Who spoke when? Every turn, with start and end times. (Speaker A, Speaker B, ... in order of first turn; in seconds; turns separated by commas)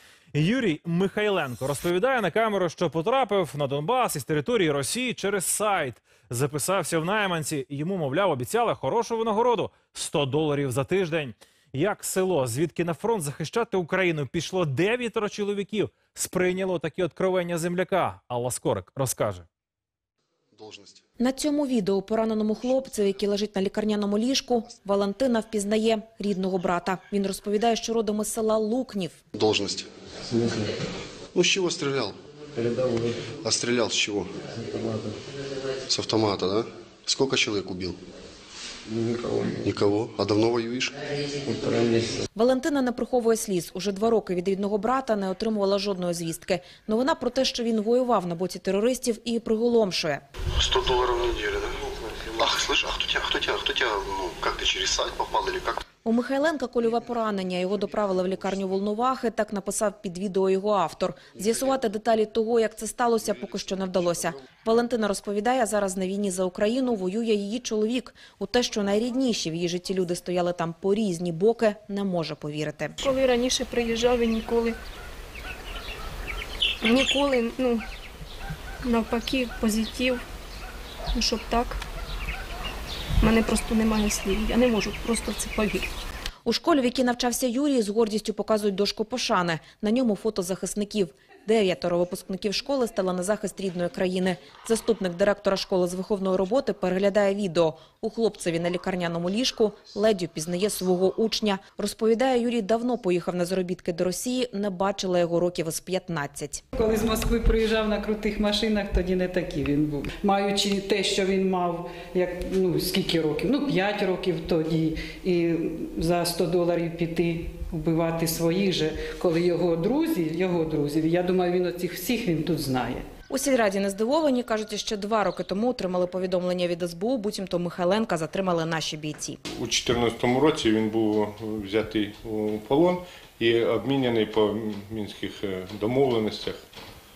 Speaker A: 0.3-19.4, Speaker B: 20.6-21.0, Speaker C: 21.2-29.2, Speaker B: 29.3-29.9, Speaker D: 30.4-30.6, Speaker B: 31.3-32.2, Speaker D: 32.6-33.2, Speaker B: 33.3-34.4, Speaker D: 34.7-35.1, Speaker B: 35.9-38.0, Speaker D: 38.9-39.5, Speaker B: 39.6-41.5, Speaker D: 41.6-42.2, Speaker C: 42.4-50.2, Speaker B: 50.6-55.8, Speaker C: 56.0-73.0, Speaker E: 73.0-74.8, Speaker E: 76.8-77.8, Speaker E: 78.8-80.2, Speaker E: 81.1-81.8, Speaker E: 83.2-85.9, Speaker C: 86.5-106.6, Speaker F: 106.7-123.1, Speaker C: 123.3-129.4, Speaker G: 129.6-136.6